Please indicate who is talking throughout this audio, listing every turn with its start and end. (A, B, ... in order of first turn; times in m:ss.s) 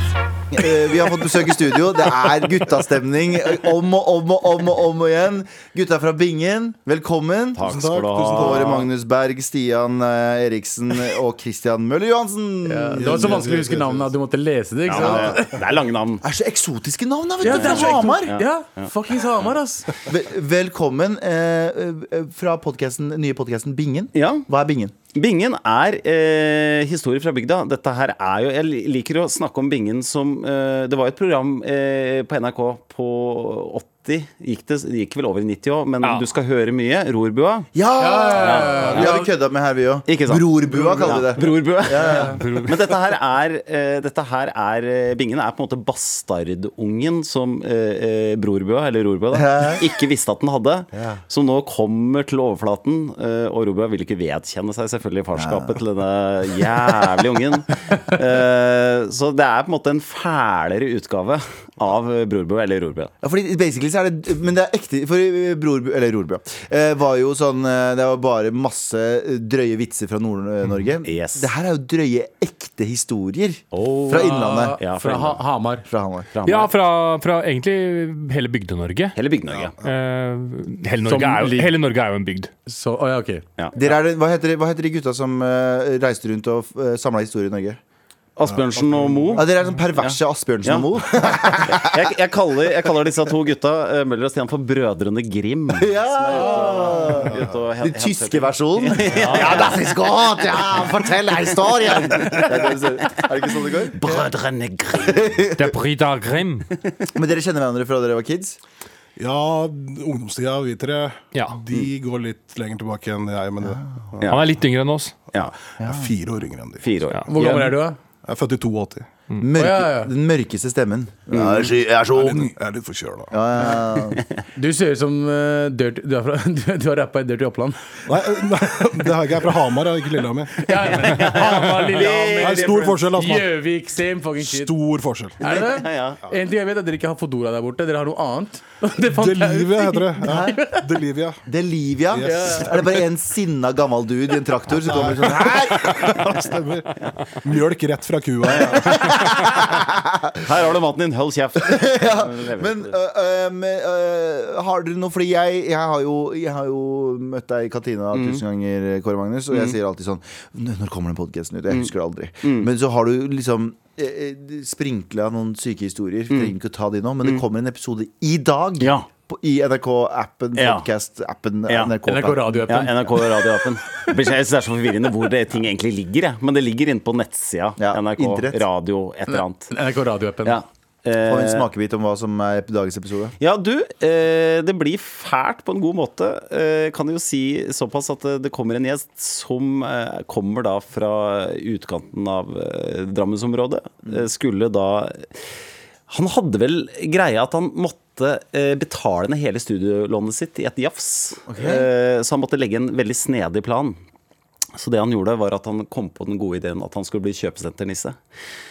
0:00.5-0:07.6 A
0:07.6-0:08.9 B
0:07.6-0:08.9 C
0:08.3-0:13.4 A
0:12.6-0:15.5 D
0:13.0-0:14.1 C
0:14.9-0:16.2 B
0:15.0-0:15.3 A
0:16.2-0:18.3 A
0:17.4-0:19.9 D
0:17.4-0:19.5 B
0:20.0-0:24.9 A
0:24.1-0:24.4 B
0:25.1-0:37.7 B
0:37.7-0:42.4 A
0:38.0-0:39.3 D
0:38.4-0:39.1 B
0:40.1-1:03.1 B
0:42.0-0:42.3 D
0:42.4-0:42.8 E
0:49.3-0:49.8 A
0:50.9-0:51.2 A
0:55.3-0:55.8 A
1:03.2-1:14.8 A
1:11.0-1:11.5 B
1:13.7-1:15.4 B
1:14.1-1:15.8 D
1:15.9-1:16.3 A
1:16.3-1:16.7 B
1:16.4-1:19.2 E
1:19.2-1:19.7 B
1:19.5-1:19.9 C
1:19.8-1:22.5 E
1:21.0-1:21.7 D
1:22.7-1:23.4 D
1:23.7-1:27.8 A
1:28.4-1:29.5 B
1:28.4-1:29.5 C
1:29.3-1:32.1 A
1:30.0-1:39.8 B
1:35.7-1:44.0 A
1:36.3-1:37.2 D
1:41.7-1:43.2 B
1:44.0-1:45.4 B
1:45.0-1:45.8 A
1:45.5-1:46.7 E
1:47.1-1:48.6 A
1:49.2-1:54.3 C
1:51.3-1:51.6 E
1:54.3-1:55.2 E
1:55.4-1:57.7 C
1:55.8-1:56.1 A
1:56.8-1:57.6 B
1:57.3-1:58.0 D
1:58.2-1:59.1 C
1:59.4-2:02.5 A
1:59.6-2:00.1 D
2:01.3-2:01.6 B
2:02.0-2:03.3 C
2:03.3-2:04.2 A
2:04.6-2:07.8 D
2:08.1-2:10.6 C
2:10.6-2:14.7 D
2:10.9-2:13.0 B
2:12.4-2:13.7 C
2:14.4-2:15.4 C
2:15.4-2:20.8 D
2:15.4-2:16.2 B
2:19.0-2:21.4 C
2:20.2-2:20.6 A
2:21.4-2:26.3 A
2:22.1-2:23.0 C
2:22.2-2:22.7 D
2:24.9-2:26.9 C
2:27.4-2:29.1 C
2:28.5-2:29.0 B
2:28.7-2:30.4 A
2:30.4-2:32.9 B
2:31.6-2:52.7 A
2:38.1-2:38.4 B
2:39.5-2:39.8 B
2:42.4-2:42.7 B
2:48.8-2:49.1 B
2:50.6-2:50.9 B
2:51.7-2:51.9 B
2:52.0-2:53.2 D
2:52.7-2:59.7 B
2:57.8-2:58.6 A
2:59.3-3:00.6 D
3:00.4-3:01.7 B
3:01.2-3:03.4 A
3:03.4-3:15.5 B
3:16.1-3:24.0 B
3:21.5-3:21.9 A
3:24.7-3:28.2 B